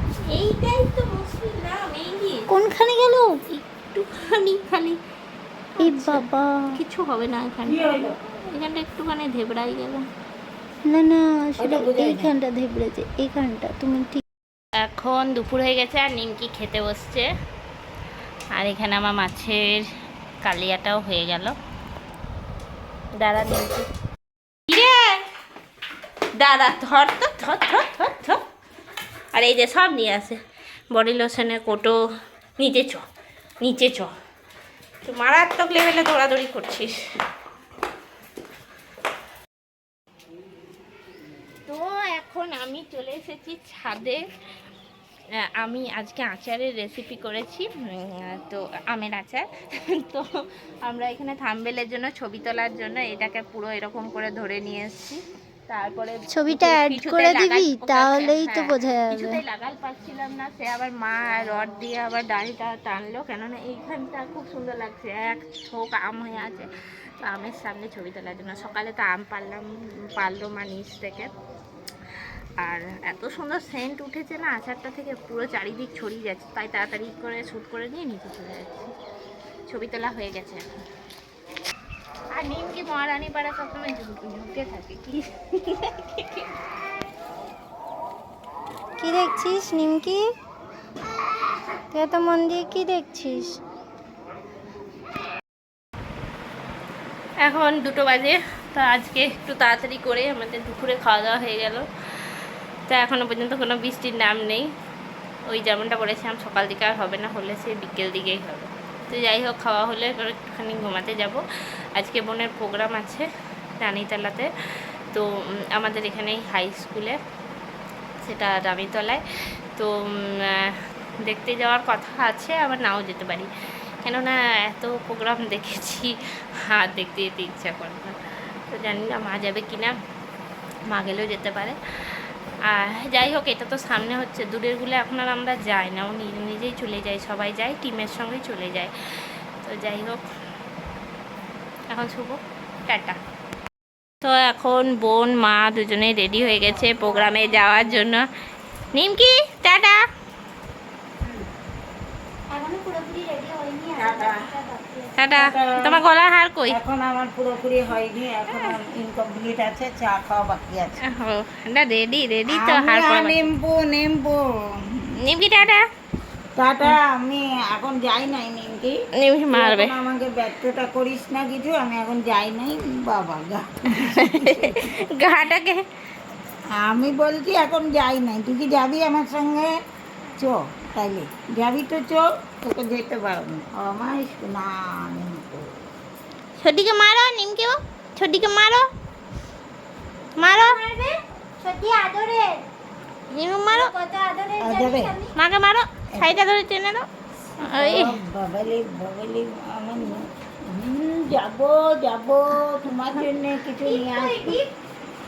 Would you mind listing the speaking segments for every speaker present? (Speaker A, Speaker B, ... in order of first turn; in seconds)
Speaker A: 0.2-2.5, 3.5-5.0, 5.8-6.2, 6.7-10.1, 14.8-17.3, 18.5-19.9, 20.4-21.5, 23.1-23.9, 24.7-25.2, 26.4-28.4, 29.3-30.4, 30.9-32.0, 32.6-33.0, 33.6-34.1, 35.0-37.0, 41.6-44.3, 45.3-50.2, 50.8-71.3, 72.6-78.9, 79.7-80.7, 82.3-86.5, 97.4-104.7, 105.5-111.4, 111.9-113.3, 113.8-114.5, 115.1-117.2, 118.2-119.2, 119.8-123.5, 124.0-128.2, 128.7-129.9, 130.9-140.2, 141.9-143.2, 144.2-148.3, 148.9-150.0, 155.2-156.8, 158.5-158.8, 161.0-163.5, 165.2-165.8, 169.2-170.0, 173.9-175.8, 186.6-188.9, 190.4-190.8, 193.3-193.9, 195.3-197.1, 197.6-198.2
Speaker B: 2.5-3.4, 5.8-6.8, 10.9-14.2, 56.3-59.4, 89.0-90.2, 91.9-93.6, 152.5-155.5, 190.4-192.5, 193.7-195.3, 197.6-197.8, 203.8-204.7
Speaker C: 7.6-8.2, 11.6-12.3, 146.7-147.2, 151.2-151.5, 153.9-154.5, 155.4-156.0, 156.7-161.0, 162.5-165.1, 166.5-168.9, 169.5-175.0, 176.7-179.8, 180.4-185.8, 194.6-195.2, 196.1-196.4, 197.7-204.6